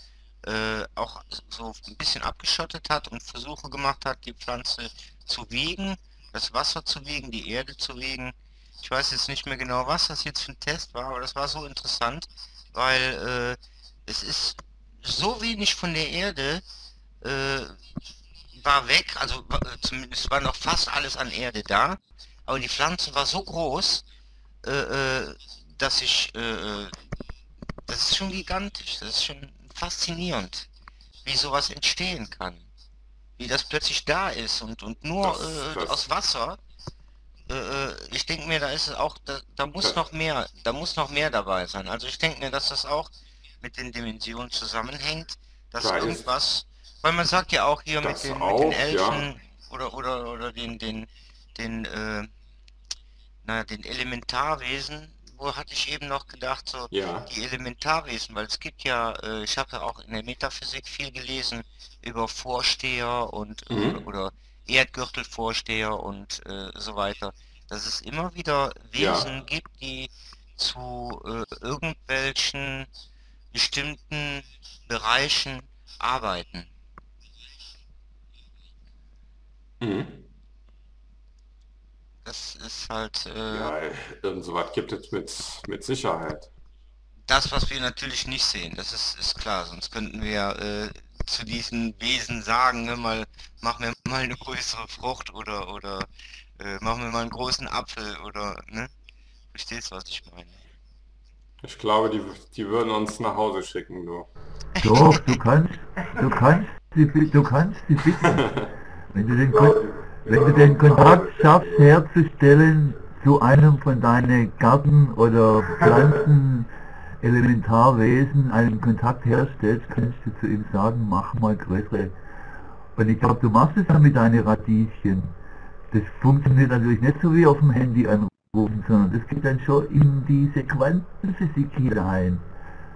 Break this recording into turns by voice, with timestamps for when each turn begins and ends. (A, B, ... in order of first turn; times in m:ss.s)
0:00.4-0:16.6 A
0:17.2-0:17.8 A
0:18.6-0:24.0 A
0:24.6-0:26.9 A
0:27.9-0:30.7 A
0:31.2-0:32.7 A
0:33.4-0:36.6 A
0:35.2-0:36.0 B
0:37.5-0:52.3 A
0:45.8-0:46.2 B
0:48.0-0:49.2 B
0:53.4-1:12.9 A
0:56.9-0:57.3 B
1:03.7-1:04.0 B
1:09.0-1:09.3 B
1:13.5-1:16.7 A
1:19.8-1:20.3 B
1:22.2-1:23.7 A
1:23.5-1:26.5 B
1:27.3-1:38.9 A
1:39.5-1:40.6 A
1:41.6-1:44.3 B
1:44.8-1:45.4 A
1:44.8-1:48.6 C
1:48.2-1:48.7 B
1:49.1-1:56.7 C
1:49.9-1:51.6 B
1:57.2-2:02.1 C
2:03.0-2:05.3 C
2:05.9-2:12.4 C